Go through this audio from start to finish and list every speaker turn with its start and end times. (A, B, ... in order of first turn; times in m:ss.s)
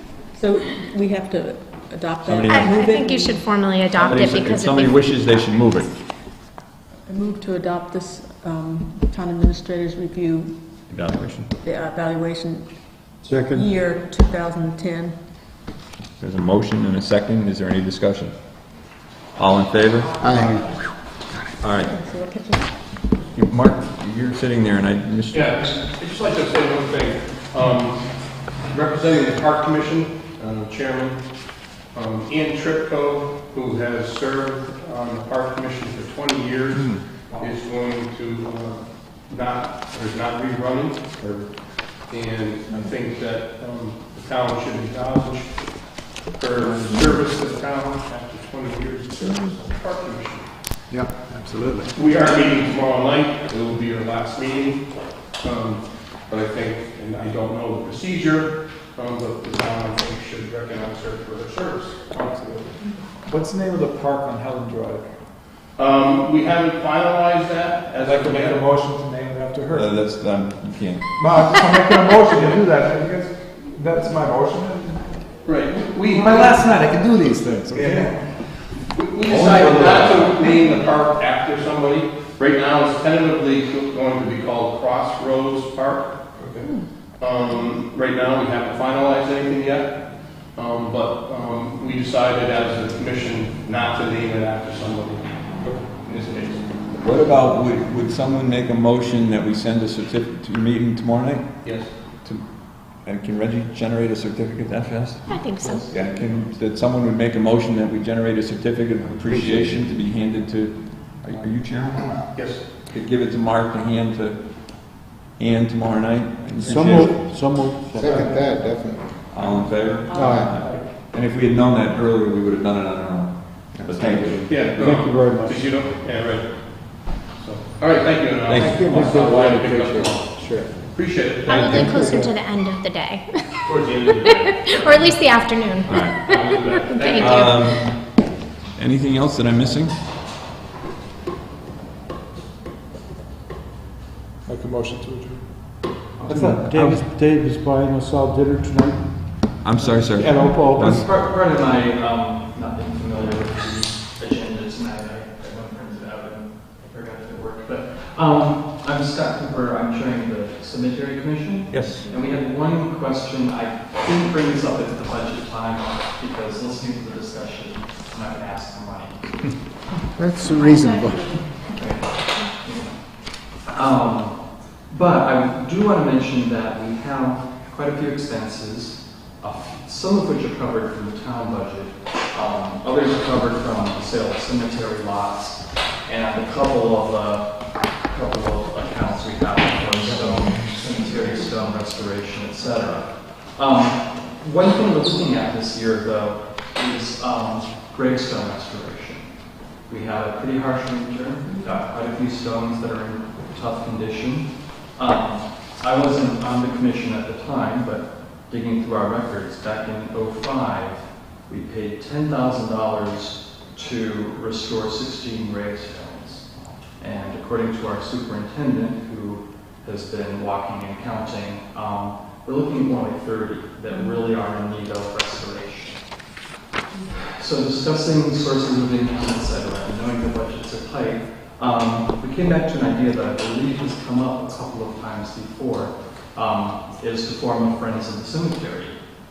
0:00.3-0:04.4 A
0:02.2-0:02.7 B
0:02.5-0:05.0 C
0:04.0-0:05.9 B
0:07.1-0:10.5 A
0:10.9-0:11.5 B
0:11.6-0:12.7 A
0:13.2-0:13.7 D
0:13.4-0:15.2 A
0:16.2-0:18.4 B
0:19.4-0:20.2 B
0:20.2-0:20.7 D
0:20.2-0:20.6 A
0:21.6-0:21.9 B
0:21.7-0:22.7 A
0:23.3-0:25.8 B
0:25.3-0:28.0 E
0:28.6-0:31.3 E
0:31.9-0:41.2 E
0:42.1-0:50.5 E
0:50.9-0:51.9 D
0:51.9-0:54.8 E
0:55.4-1:02.2 E
1:02.2-1:05.1 F
1:05.8-1:08.6 E
1:08.0-1:09.9 F
1:09.7-1:11.0 B
1:11.2-1:15.1 F
1:12.3-1:12.6 E
1:15.4-1:16.6 E
1:16.3-1:18.1 F
1:17.7-1:18.3 E
1:18.9-1:26.6 E
1:19.2-1:20.4 B
1:27.2-1:30.0 E
1:30.6-1:35.2 E
1:35.8-1:36.6 E
1:36.9-1:42.4 B
1:41.6-1:41.9 E
1:42.9-1:52.3 B
1:45.3-1:45.8 C
1:52.3-1:52.6 E
1:52.8-1:57.2 B
1:56.7-1:58.0 G
1:58.0-1:59.2 D
1:58.1-1:58.4 F
1:59.3-2:05.0 B
2:00.0-2:00.5 A
2:00.2-2:00.5 D
2:00.2-2:00.8 F
2:03.7-2:04.5 D
2:04.4-2:10.4 E
2:04.8-2:05.5 G
2:08.4-2:08.9 B
2:08.6-2:10.9 D
2:10.9-2:11.7 E
2:11.4-2:17.7 C
2:11.5-2:12.4 D
2:13.6-2:15.2 E
2:15.8-2:16.2 B
2:16.2-2:17.5 E
2:17.2-2:18.0 B
2:18.8-2:19.9 B
2:24.4-2:25.4 F
2:26.2-2:27.0 B
2:26.3-2:27.4 G
2:29.6-2:31.0 B
2:30.7-2:49.7 H
2:41.7-2:42.0 B
2:50.2-2:51.4 D
2:50.5-2:51.5 A
2:51.7-3:46.2 H
3:47.3-3:59.0 H